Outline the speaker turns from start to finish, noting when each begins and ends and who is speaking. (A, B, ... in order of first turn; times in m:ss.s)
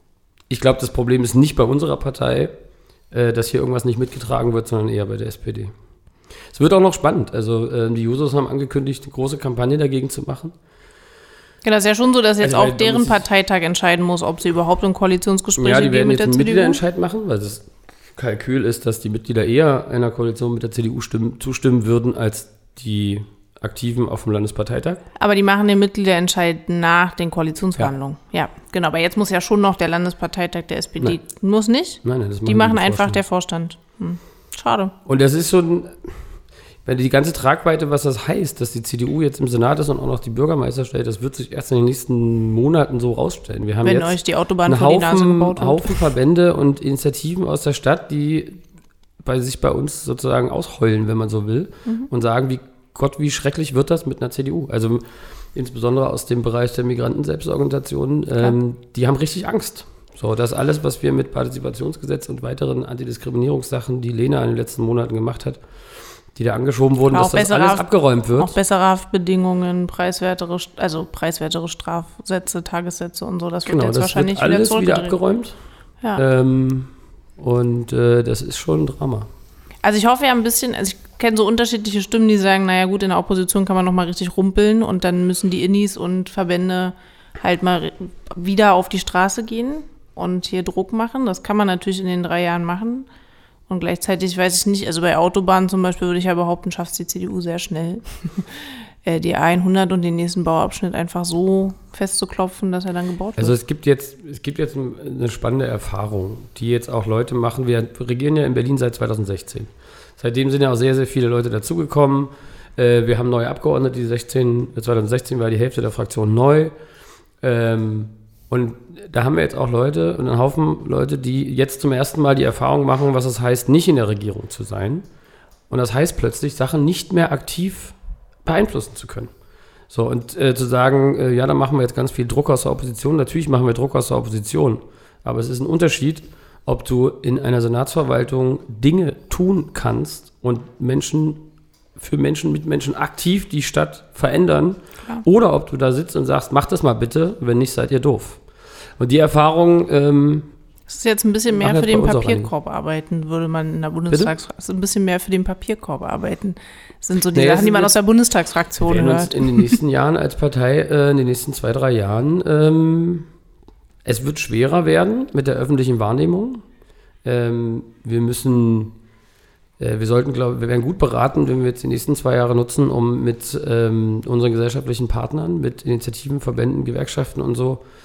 0:00.5-0:02.5 A
0:03.1-0:05.7 A
0:06.5-0:10.5 A
0:11.6-0:16.8 B
0:12.4-0:13.2 A
0:15.6-0:25.0 A
0:25.2-0:34.9 B
0:32.0-0:33.2 A
0:35.1-0:36.1 A
0:36.8-0:48.6 A
0:43.8-0:46.0 B
0:49.2-1:05.6 A
1:06.3-1:08.6 A
1:07.1-1:15.2 B
1:13.7-1:15.6 A
1:16.2-1:19.3 A
1:19.8-1:33.1 B
1:33.7-1:43.6 B
1:43.4-1:56.7 A
1:57.4-2:05.1 A
2:05.7-2:09.3 A
2:09.9-2:21.5 A
2:22.0-2:28.4 A
2:29.0-2:30.5 A
2:30.9-2:39.7 B
2:31.5-2:32.5 A
2:37.3-2:38.0 A
2:38.8-2:43.3 A
2:44.0-2:46.6 A
2:47.2-2:49.0 A
2:49.8-2:57.8 A